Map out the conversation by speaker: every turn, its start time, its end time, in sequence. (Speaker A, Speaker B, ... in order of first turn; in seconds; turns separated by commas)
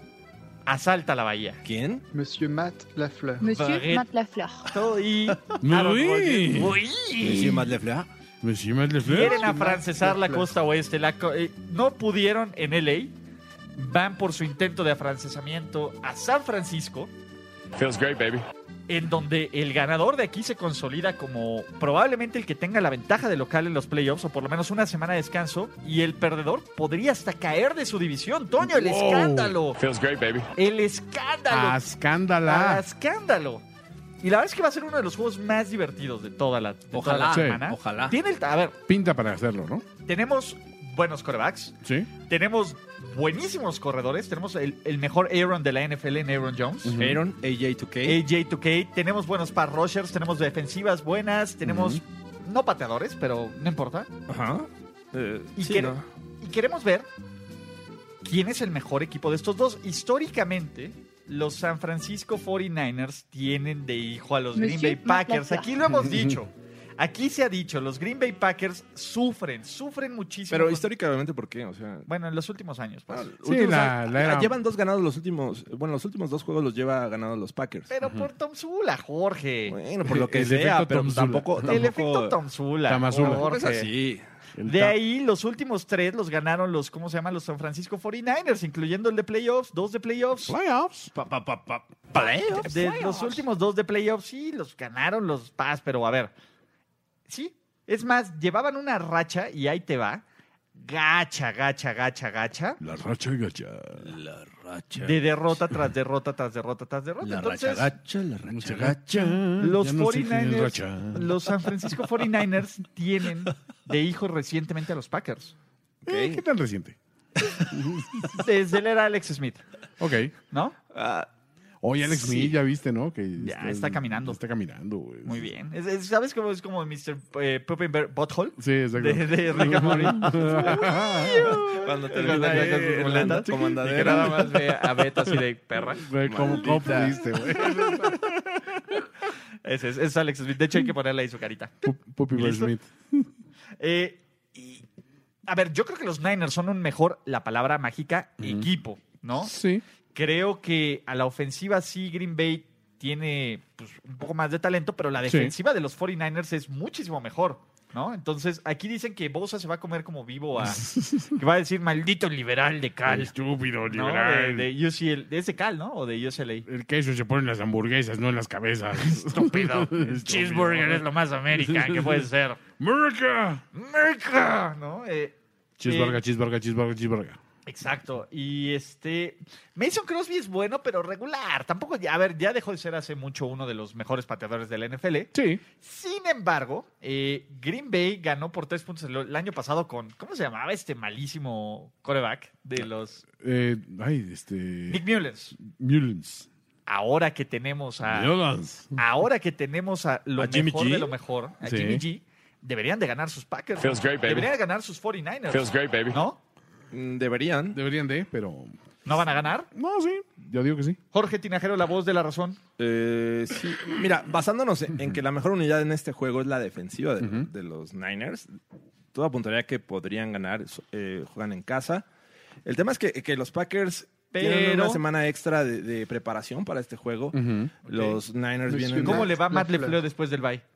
Speaker A: 0.7-1.6, Speaker B: 1.6-2.0, Speaker C: 2.1-3.5, Speaker D: 3.4-4.7, Speaker A: 3.5-4.1, Speaker A: 4.7-7.6, Speaker E: 5.6-7.7, Speaker B: 7.2-8.1, Speaker E: 8.4-9.5, Speaker A: 9.0-13.1, Speaker C: 9.2-10.5, Speaker A: 13.8-17.1, Speaker F: 17.8-18.4, Speaker A: 18.9-29.8, Speaker E: 28.6-29.6, Speaker F: 29.8-30.4, Speaker A: 30.6-31.8, Speaker E: 31.5-32.8, Speaker A: 32.4-33.6, Speaker A: 34.2-38.8, Speaker B: 36.9-38.1, Speaker E: 37.3-37.6, Speaker E: 38.9-39.8, Speaker A: 40.0-46.9, Speaker E: 41.8-42.1, Speaker E: 46.8-47.2, Speaker B: 47.0-48.2, Speaker A: 48.0-54.1, Speaker E: 51.6-52.0, Speaker B: 54.3-56.0, Speaker A: 55.6-57.1, Speaker A: 58.2-70.8, Speaker D: 64.5-65.7, Speaker E: 66.0-66.4, Speaker B: 70.5-72.1, Speaker A: 72.1-73.3, Speaker B: 73.1-77.9, Speaker E: 73.4-74.5, Speaker A: 77.9-79.8, Speaker E: 78.0-78.3, Speaker B: 79.7-82.4, Speaker E: 80.0-81.8, Speaker A: 81.6-83.9, Speaker E: 82.9-83.5, Speaker B: 83.1-84.2, Speaker E: 84.6-85.0, Speaker A: 84.7-90.5, Speaker E: 90.5-91.1, Speaker B: 91.1-93.3, Speaker A: 92.5-96.3, Speaker A: 97.3-100.2, Speaker A: 100.7-102.8, Speaker E: 102.8-104.2, Speaker B: 104.0-105.3, Speaker A: 105.0-107.9, Speaker B: 107.2-109.4, Speaker E: 108.4-111.3, Speaker A: 109.5-115.5, Speaker B: 116.0-116.4, Speaker E: 116.0-117.0, Speaker E: 117.6-118.4, Speaker A: 118.3-119.6, Speaker E: 120.0-120.3, Speaker A: 120.5-120.8, Speaker B: 120.9-121.3, Speaker E: 121.8-125.5, Speaker B: 122.1-122.5, Speaker A: 123.4-124.4, Speaker A: 125.2-136.1, Speaker E: 128.6-131.8, Speaker B: 131.5-134.7, Speaker E: 132.3-133.5, Speaker E: 136.0-138.3, Speaker B: 136.2-137.2, Speaker A: 137.5-139.0, Speaker A: 139.6-142.7, Speaker E: 141.8-143.3, Speaker A: 143.8-144.8, Speaker A: 145.4-149.5, Speaker E: 148.4-148.7, Speaker E: 149.4-149.8, Speaker A: 150.1-163.3, Speaker E: 155.2-155.5, Speaker E: 160.6-161.4, Speaker E: 163.1-164.7, Speaker A: 163.9-166.7, Speaker E: 166.7-172.3, Speaker A: 169.0-172.6, Speaker E: 172.8-173.6, Speaker A: 173.7-176.2, Speaker E: 175.8-177.4, Speaker A: 177.7-193.2, Speaker E: 185.3-185.6, Speaker E: 193.3-196.5, Speaker A: 194.9-195.6, Speaker A: 196.9-198.3, Speaker E: 198.0-199.0, Speaker A: 198.9-206.4, Speaker B: 200.4-201.1, Speaker E: 201.6-202.0, Speaker F: 203.8-204.4, Speaker F: 205.5-206.2, Speaker B: 206.9-207.8, Speaker E: 207.7-208.7, Speaker A: 209.1-209.7, Speaker E: 209.7-211.0, Speaker A: 211.1-212.6, Speaker B: 212.8-218.6, Speaker E: 217.2-217.5, Speaker B: 219.1-222.0, Speaker B: 222.6-229.3, Speaker A: 224.3-225.0, Speaker E: 227.3-227.7, Speaker A: 227.8-228.2, Speaker C: 228.7-230.0, Speaker A: 229.0-230.6